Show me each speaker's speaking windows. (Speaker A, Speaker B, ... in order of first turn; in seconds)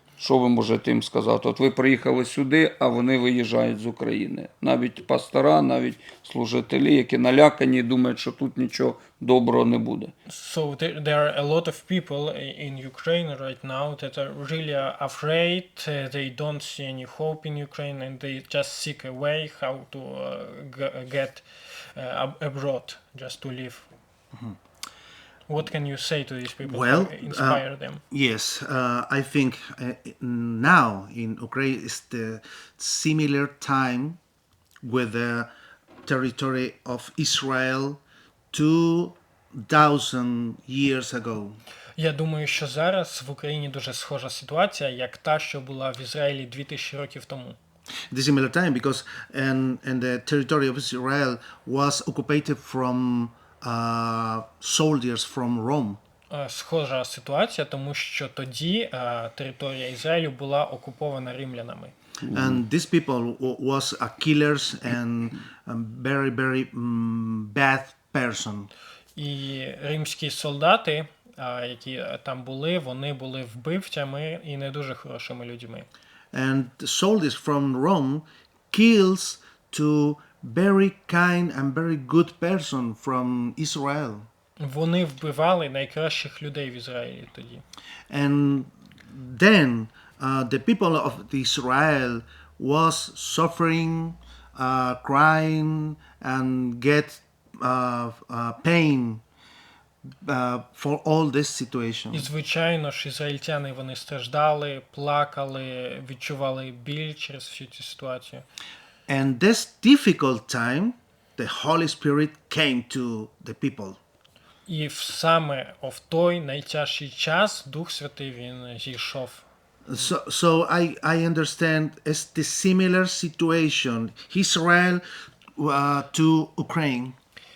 Speaker A: 0.2-10.1, 62.3-62.5
Speaker B: 10.3-23.9, 25.5-28.0, 42.0-47.6, 56.3-61.9, 69.2-75.9, 84.6-87.6, 102.1-108.5, 114.7-119.5
Speaker C: 26.6-34.2, 34.8-35.5, 36.0-41.6, 48.1-56.0, 62.3-68.7, 76.3-84.3, 88.1-99.2, 100.2-102.3, 109.1-114.0, 119.9-125.0, 125.6-127.2